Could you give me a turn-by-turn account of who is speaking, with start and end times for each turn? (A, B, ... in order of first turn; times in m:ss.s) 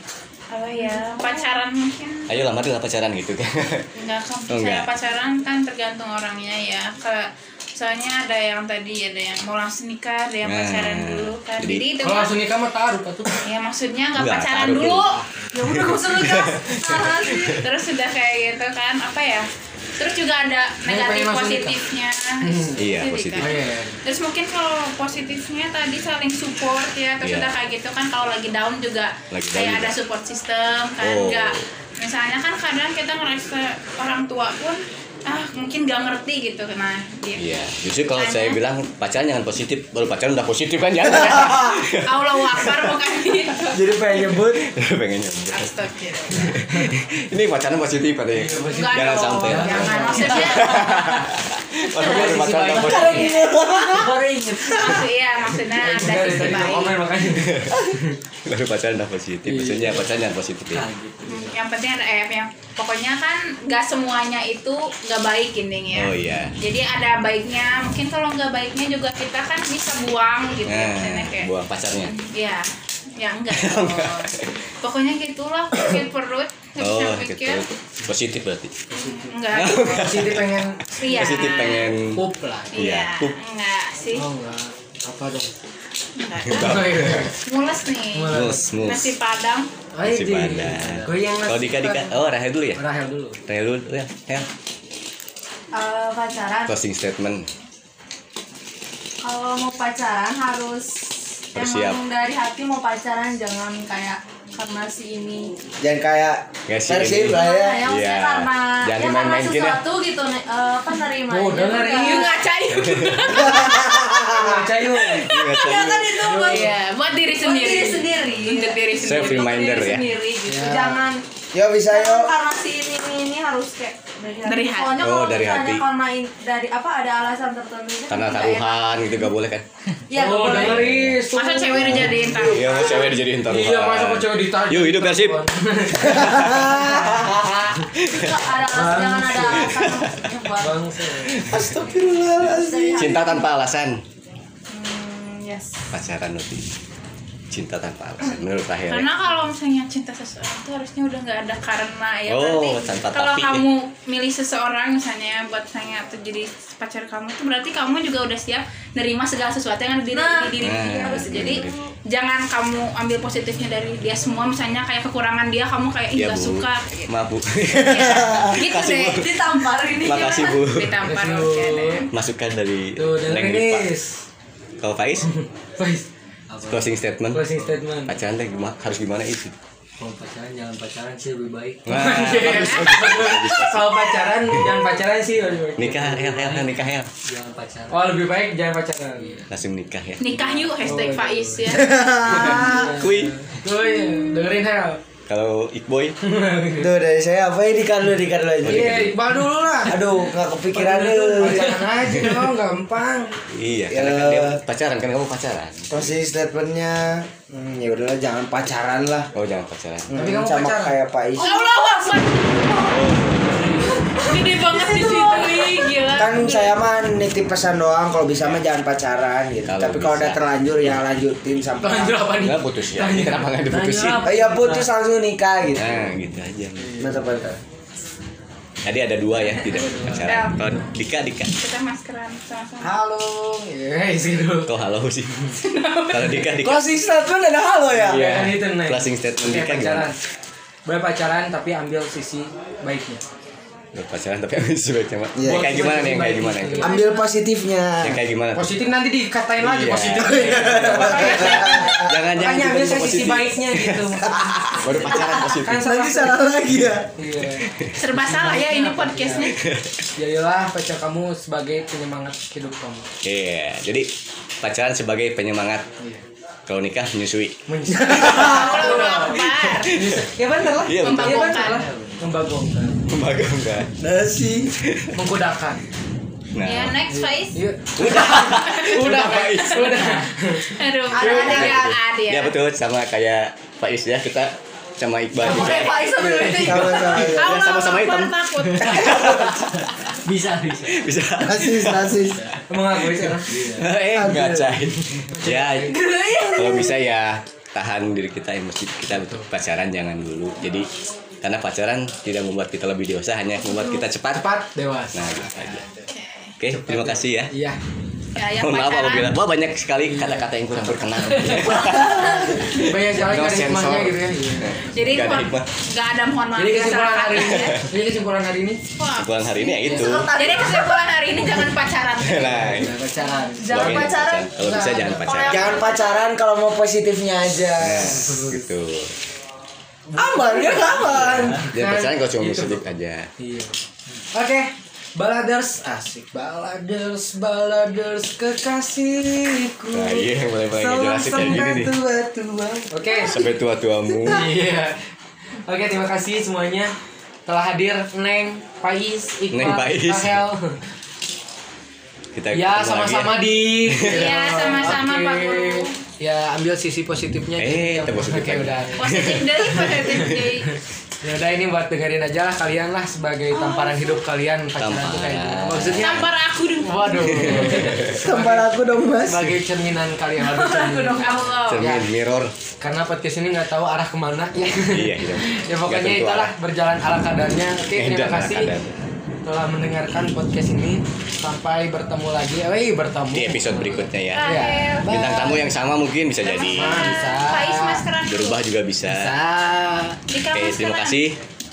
0:00.5-0:02.4 A
0:01.0-0:01.3 B
0:02.3-0:03.9 C
0:03.9-0:12.4 A
0:04.5-0:04.9 C
0:10.4-0:11.9 C
0:12.0-0:13.4 D
0:13.3-0:15.2 A
0:14.2-0:17.6 C
0:15.5-0:17.6 B
0:17.5-0:19.5 A
0:20.0-0:37.5 A
0:20.8-0:21.8 D
0:22.4-0:22.8 D
0:22.8-0:23.6 C
0:23.4-0:24.0 D
0:27.2-0:27.5 C
0:29.3-0:30.0 C
0:31.0-0:31.6 C
0:37.4-0:43.0 C
0:38.2-0:38.6 A
0:42.0-0:43.8 A
0:43.7-0:44.7 E
0:44.4-0:53.4 C
0:45.5-0:46.6 A
0:48.3-0:50.7 D
0:48.7-0:51.3 A
0:52.0-0:53.3 D
0:52.6-0:54.2 E
0:52.8-0:53.5 A
0:53.7-0:55.0 F
0:54.6-0:57.0 A
0:55.7-0:58.2 D
0:57.3-0:57.9 C
0:58.4-1:00.9 C
0:59.4-1:00.0 D
1:00.7-1:01.6 F
1:01.3-1:11.5 A
1:05.9-1:06.5 C
1:10.6-1:12.1 C
1:12.0-1:17.6 A
1:13.5-1:14.6 C
1:16.8-1:18.8 C
1:18.9-1:21.4 D
1:18.9-1:20.2 A
1:19.5-1:22.2 C
1:21.0-1:22.0 A
1:22.1-1:22.8 D
1:22.7-1:24.2 A
1:22.8-1:23.4 C
1:24.1-1:25.5 D
1:26.2-1:29.7 A
1:26.4-1:27.3 C
1:26.5-1:27.4 D
1:28.1-1:28.6 D
1:28.3-1:29.1 C
1:29.9-1:32.1 D
1:30.0-1:32.8 C
1:30.8-1:31.1 F
1:32.8-1:33.4 D
1:33.4-1:34.5 C
1:35.7-1:36.7 B
1:36.7-1:37.5 C
1:39.2-1:45.5 B
1:41.5-1:42.0 C
1:45.8-1:47.8 E
1:46.7-1:49.8 C
1:47.2-1:52.3 B
1:51.3-1:52.3 D
1:51.8-1:54.2 A
1:52.7-1:53.4 C
1:53.3-1:54.8 E
1:54.2-1:55.3 D
1:55.0-1:55.7 A
1:55.3-1:56.4 C
1:55.4-1:56.7 B
1:56.2-1:56.7 D
1:56.3-2:00.0 A
1:57.2-2:01.2 B
1:58.9-2:00.2 C
2:00.4-2:01.0 D
2:01.5-2:02.4 E
2:01.8-2:08.7 B
2:04.4-2:05.0 A
2:05.0-2:05.8 C
2:08.1-2:09.6 C
2:10.1-2:10.9 B
2:10.1-2:12.6 D
2:10.5-2:11.2 C
2:11.3-2:13.2 A
2:11.8-2:15.4 C
2:13.4-2:17.0 D
2:16.0-2:18.4 C
2:16.2-2:17.3 E
2:18.1-2:20.9 B
2:18.6-2:19.9 D
2:19.4-2:20.2 C
2:20.6-2:21.4 D
2:21.4-2:21.8 C
2:21.4-2:23.2 E
2:22.3-2:23.5 B
2:22.9-2:24.0 C
2:24.7-2:25.8 A
2:25.9-2:26.7 C
2:27.5-2:29.1 C
2:28.9-2:47.2 A
2:32.3-2:33.6 C
2:40.1-2:41.7 B
2:40.6-2:41.8 C
2:46.1-2:51.2 C
2:47.7-2:49.3 A
2:49.0-2:50.6 B
2:50.1-2:52.1 A
2:51.0-2:52.1 D
2:52.1-2:53.9 C
2:53.0-2:54.2 D
2:54.8-2:55.3 C
2:55.2-2:56.1 D
2:56.5-2:57.8 F
2:56.6-2:57.5 C
2:57.3-2:58.2 D
2:58.1-2:59.6 C
3:00.0-3:02.0 F
3:01.8-3:04.9 C
3:01.9-3:06.3 D
3:02.4-3:03.0 A
3:05.8-3:07.1 C
3:06.2-3:08.1 F
3:07.9-3:09.4 D
3:09.2-3:09.5 F
3:09.5-3:10.8 C
3:10.2-3:12.0 A
3:10.8-3:11.7 D
3:11.6-3:13.1 E
3:12.2-3:15.0 D
3:12.3-3:13.4 C
3:15.3-3:16.2 C
3:16.2-3:16.9 D
3:16.8-3:19.1 E
3:18.6-3:19.2 C
3:18.6-3:20.1 D
3:19.8-3:21.8 E
3:20.7-3:23.3 D
3:23.5-3:26.0 C
3:23.9-3:24.6 E
3:25.9-3:29.3 E
3:29.3-3:30.1 C
3:30.1-3:31.6 E
3:30.1-3:31.0 D
3:31.4-3:33.0 B
3:31.4-3:33.0 A
3:33.6-3:33.9 F
3:34.0-3:35.8 B
3:34.1-3:36.8 A
3:36.1-3:42.3 E
3:39.6-3:41.0 C
3:41.8-3:43.5 D
3:42.4-3:44.3 C
3:43.7-3:44.9 F
3:44.2-3:46.0 E
3:45.7-3:46.9 C
3:46.8-3:47.5 D
3:47.0-3:47.6 E
3:48.8-3:51.5 C
3:49.7-3:50.3 D
3:50.2-3:50.8 A
3:51.5-3:52.9 A
3:52.8-3:54.7 D
3:54.6-3:55.5 C
3:55.6-3:56.4 A
3:56.1-3:56.8 C
3:56.5-3:58.3 E
3:57.9-4:00.1 C
3:57.9-4:00.2 D
4:00.8-4:03.2 D
4:03.9-4:06.9 C
4:05.4-4:05.7 E
4:05.4-4:07.0 D
4:06.8-4:08.2 E
4:06.9-4:07.3 B
4:08.0-4:08.8 C
4:08.5-4:16.4 D
4:09.6-4:15.8 C
4:10.4-4:12.0 E
4:11.0-4:12.0 A
4:15.8-4:17.1 E
4:17.1-4:19.5 D
4:17.6-4:18.0 C
4:18.0-4:19.6 A
4:19.5-4:20.0 C
4:20.2-4:23.1 D
4:23.2-4:24.1 C
4:24.6-4:25.9 C
4:26.0-4:26.2 D
4:26.7-4:28.6 C
4:27.7-4:33.0 D
4:28.1-4:30.0 A
4:29.5-4:31.7 C
4:31.0-4:31.8 A
4:31.7-4:32.2 F
4:33.1-4:33.9 C
4:34.0-4:34.7 E
4:34.8-4:35.2 C
4:35.1-4:35.8 D
4:36.5-4:37.0 C
4:36.6-4:42.5 A
4:37.1-4:41.8 D
4:38.0-4:40.0 C
4:41.1-4:42.0 B
4:41.1-4:49.9 C
4:45.4-4:47.2 B
4:45.5-4:46.1 A
4:46.5-4:47.6 E
4:47.1-4:49.5 A
4:48.8-4:51.1 F
4:50.9-4:52.2 C
4:51.4-4:52.5 E
4:52.7-4:53.6 D
4:53.4-4:53.9 F
4:53.5-5:00.9 C
4:54.1-4:54.8 E
4:55.0-4:55.9 D
4:55.9-4:57.0 B
4:59.1-4:59.5 D
5:01.4-5:04.5 C
5:04.3-5:06.0 D
5:05.1-5:05.8 C
5:06.1-5:06.5 A
5:06.6-5:07.5 C
5:06.7-5:07.8 D
5:08.4-5:09.4 A
5:08.4-5:15.7 C
5:10.0-5:10.5 D
5:12.6-5:14.8 D
5:14.9-5:17.8 A
5:16.5-5:18.8 D
5:17.3-5:17.8 C
5:19.0-5:19.7 A
5:19.1-5:20.5 C
5:19.6-5:21.2 B
5:20.3-5:22.8 A
5:22.2-5:22.9 C
5:22.3-5:25.4 D
5:23.2-5:26.1 B
5:23.6-5:25.8 C
5:25.4-5:28.4 E
5:27.8-5:29.1 C
5:28.0-5:28.6 D
5:30.1-5:33.7 D
5:30.2-5:31.6 E
5:31.1-5:33.3 C
5:34.3-5:40.2 D
5:39.9-5:42.0 C
5:40.8-5:43.4 E
5:42.9-5:43.4 D
5:43.2-5:44.5 C
5:44.2-5:45.0 D
5:45.6-5:46.9 D
5:47.5-5:50.8 D
5:49.5-5:50.4 C
5:52.3-5:54.3 C
5:52.5-5:59.2 D
5:54.0-5:56.0 A
5:57.6-6:00.4 C
5:59.0-6:00.7 A
5:59.9-6:00.4 D
6:01.2-6:08.7 D
6:03.6-6:03.9 C
6:04.8-6:06.3 C
6:05.9-6:07.8 A
6:07.3-6:08.2 C
6:08.1-6:09.6 E
6:09.2-6:12.0 D
6:10.5-6:11.9 A
6:11.7-6:12.6 C
6:12.8-6:18.7 D
6:14.9-6:16.5 C
6:17.9-6:19.0 C
6:19.4-6:25.7 D
6:23.3-6:27.1 C
6:24.3-6:25.4 A
6:26.4-6:28.6 A
6:26.7-6:28.0 D
6:28.2-6:29.3 C
6:29.0-6:30.2 D
6:30.3-6:31.2 A
6:30.5-6:31.4 C